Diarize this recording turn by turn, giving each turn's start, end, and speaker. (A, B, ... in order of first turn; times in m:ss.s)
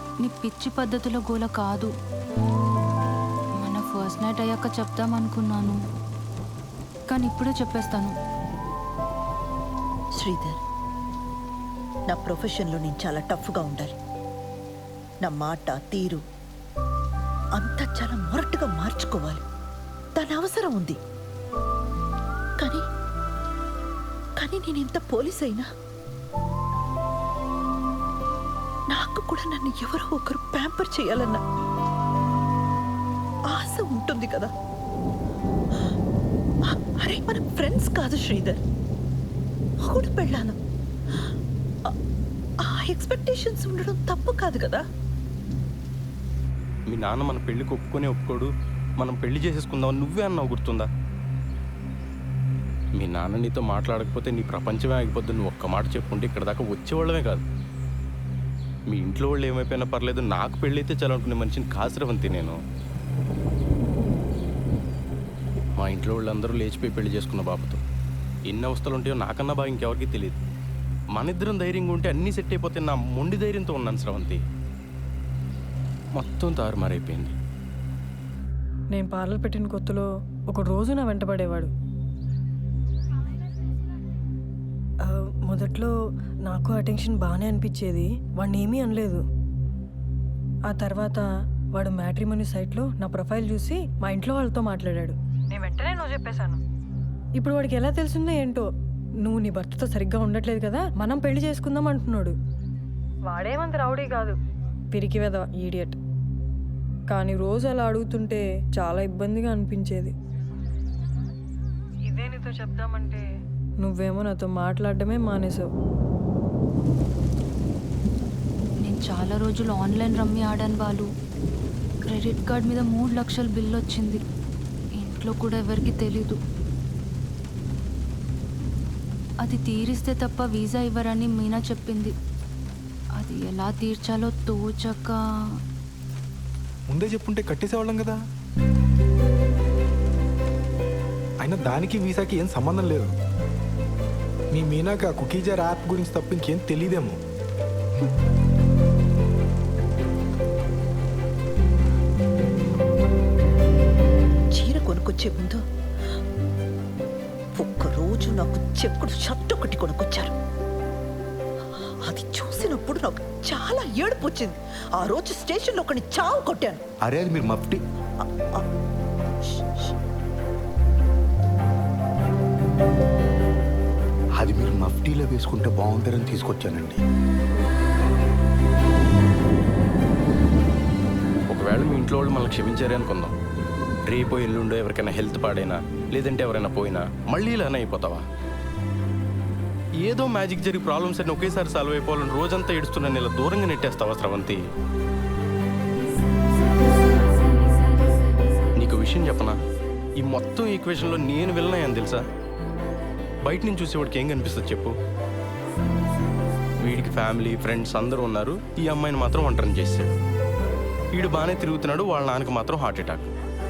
0:00.2-0:01.9 A
0:03.6-0:05.8 A
0:07.1-0:08.1 A
0:10.2-0:10.6 B
0:12.1-0:14.0 B
0:15.2-0:16.2 B
0:17.6-0:19.4 B
0:20.2-0:21.0 B
0:24.4-0:25.6 B
0:28.9-0:31.4 B
0:33.5-0:34.5 B
0:36.7-0:38.6 B
0:39.8-0:40.6 B
0:42.6-0:44.8 B
0:46.9-0:50.9 C
0:53.0-0:57.4 C
0:58.9-1:02.6 C
1:05.8-1:07.8 C
1:08.5-1:10.4 C
1:11.2-1:14.4 C
1:16.2-1:17.4 C
1:18.9-1:21.7 D
1:25.0-1:25.9 D
1:26.4-1:29.2 D
1:30.7-1:31.2 D
1:31.7-1:36.6 D
1:37.4-1:38.6 D
1:39.2-1:42.3 D
1:43.3-1:44.3 D
1:44.9-1:46.0 D
1:47.1-1:50.1 D
1:52.1-1:53.2 D
1:53.8-1:55.6 D
1:58.8-2:01.0 A
2:02.1-2:04.2 A
2:05.0-2:06.4 A
2:09.4-2:12.1 A
2:13.2-2:15.2 A
2:16.9-2:18.2 E
2:21.4-2:23.1 E
2:24.5-2:27.2 E
2:34.5-2:35.6 B
2:37.6-2:40.3 B
2:42.0-2:46.8 B
2:47.0-2:47.8 F
2:48.2-2:48.6 B
2:49.4-2:49.9 B
2:54.4-2:57.0 F
3:01.5-3:03.3 C
3:04.1-3:08.2 C
3:10.0-3:14.6 C
3:18.8-3:19.5 C
3:20.2-3:22.2 C
3:23.4-3:24.9 C
3:26.8-3:30.1 C
3:31.1-3:33.3 C